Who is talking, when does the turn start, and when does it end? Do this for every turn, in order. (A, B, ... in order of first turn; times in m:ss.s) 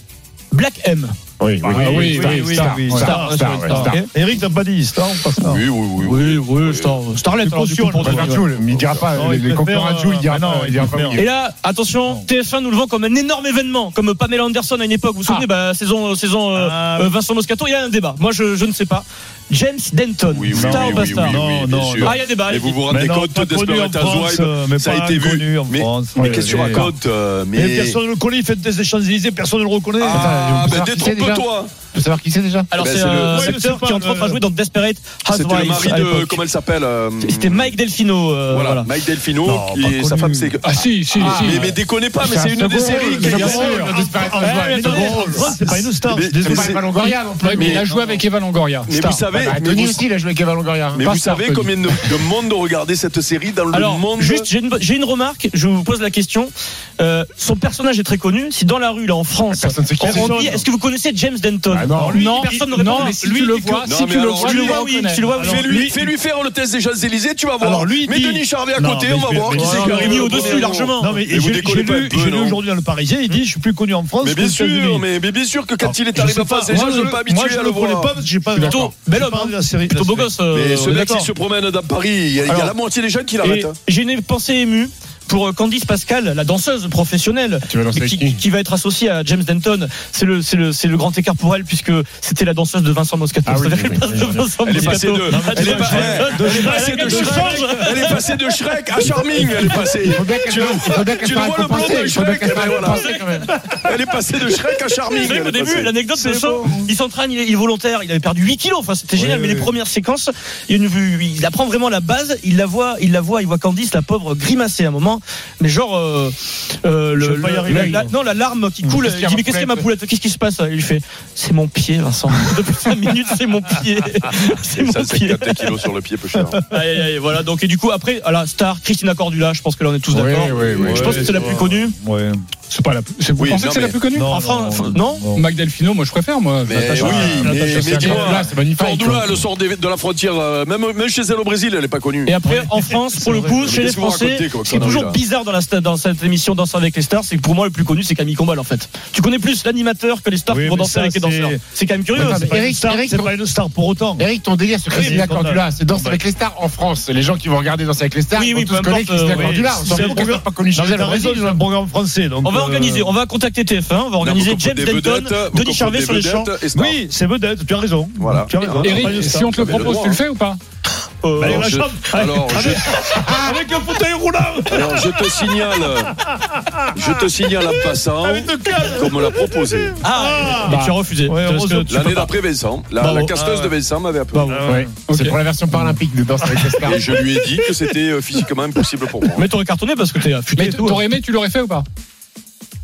0:00.5-0:01.1 A
0:01.4-0:04.0 B
0:01.6-0:05.6 C
0:01.8-0:03.2 D
0:03.0-0:04.1 A
0:05.5-0:07.0 E
0:06.0-0:08.5 A
0:07.4-0:08.5 C
0:08.0-0:11.3 B
0:08.6-0:09.1 E
0:09.1-0:11.3 C
0:11.1-0:21.4 A
0:16.5-0:17.2 C
0:20.3-0:28.0 E
0:20.5-0:22.2 C
0:22.0-0:22.8 A
0:22.9-0:26.9 C
0:26.1-0:26.9 D
0:27.5-0:30.3 C
0:30.0-0:31.9 E
0:30.1-0:32.7 B
0:32.7-0:36.4 A
0:32.7-0:33.6 E
0:33.3-0:34.4 C
0:35.3-0:37.8 E
0:37.2-0:38.9 A
0:38.5-0:43.7 E
0:39.4-0:40.6 C
0:40.6-0:41.8 D
0:41.2-0:47.9 B
0:42.7-0:44.0 D
0:43.5-0:46.8 C
0:44.4-0:45.8 A
0:46.1-0:47.0 E
0:47.0-0:49.2 D
0:47.5-0:47.8 E
0:47.8-0:48.2 C
0:48.9-0:50.0 E
0:49.3-0:51.1 B
0:50.9-0:54.5 E
0:51.2-0:51.6 D
0:53.7-1:05.8 A
0:59.5-1:00.6 B
1:00.0-1:00.6 C
1:01.7-1:02.2 B
1:02.0-1:05.4 D
1:03.8-1:04.8 E
1:05.4-1:06.0 C
1:05.4-1:12.6 E
1:07.6-1:15.1 C
1:09.5-1:11.2 A
1:14.2-1:18.2 E
1:15.8-1:20.4 C
1:18.5-1:18.9 B
1:18.6-1:21.2 A
1:20.5-1:23.8 E
1:22.5-1:22.8 A
1:23.4-1:38.2 A
1:27.7-1:28.4 B
1:33.5-1:34.5 B
1:34.6-1:46.1 E
1:35.2-1:38.3 C
1:40.0-1:43.5 B
1:45.1-2:05.8 A
1:46.2-1:46.9 C
1:49.1-1:49.7 C
1:57.2-1:58.2 C
1:57.7-1:58.1 B
1:58.8-1:59.9 B
2:04.7-2:06.6 E
2:06.7-2:12.0 A
2:10.1-2:11.3 B
2:10.6-2:11.4 E
2:10.8-2:12.4 C
2:12.7-2:14.3 D
2:13.4-2:14.0 E
2:14.1-2:15.5 C
2:14.3-2:15.2 A
2:15.3-2:18.0 D
2:16.7-2:22.4 E
2:17.0-2:18.2 C
2:17.1-2:19.4 B
2:22.3-2:32.5 A
2:22.5-2:23.7 C
2:23.6-2:25.2 E
2:30.5-2:31.6 C
2:32.1-2:34.3 C
2:32.2-2:33.3 B
2:34.2-2:41.4 B
2:34.9-2:36.2 C
2:35.0-2:35.2 A
2:38.4-2:40.3 A
2:39.3-2:43.1 C
2:41.0-2:41.6 A
2:42.4-2:46.5 A
2:44.2-2:47.0 E
2:46.7-2:49.9 C
2:48.2-2:50.2 E
2:48.8-2:50.6 D
2:51.2-2:51.7 A
2:51.4-3:02.2 C
2:51.4-2:52.9 E
2:53.2-2:53.6 B
2:54.7-2:56.1 E
2:57.0-2:59.9 E
3:00.0-3:02.4 A
3:00.7-3:00.9 B
3:01.9-3:04.5 E
3:03.0-3:03.3 A
3:03.3-3:03.8 C
3:04.3-3:05.4 A
3:04.4-3:05.0 C
3:04.6-3:07.0 B
3:06.5-3:07.8 C
3:06.9-3:09.5 E
3:09.3-3:11.0 A
3:10.6-3:11.9 D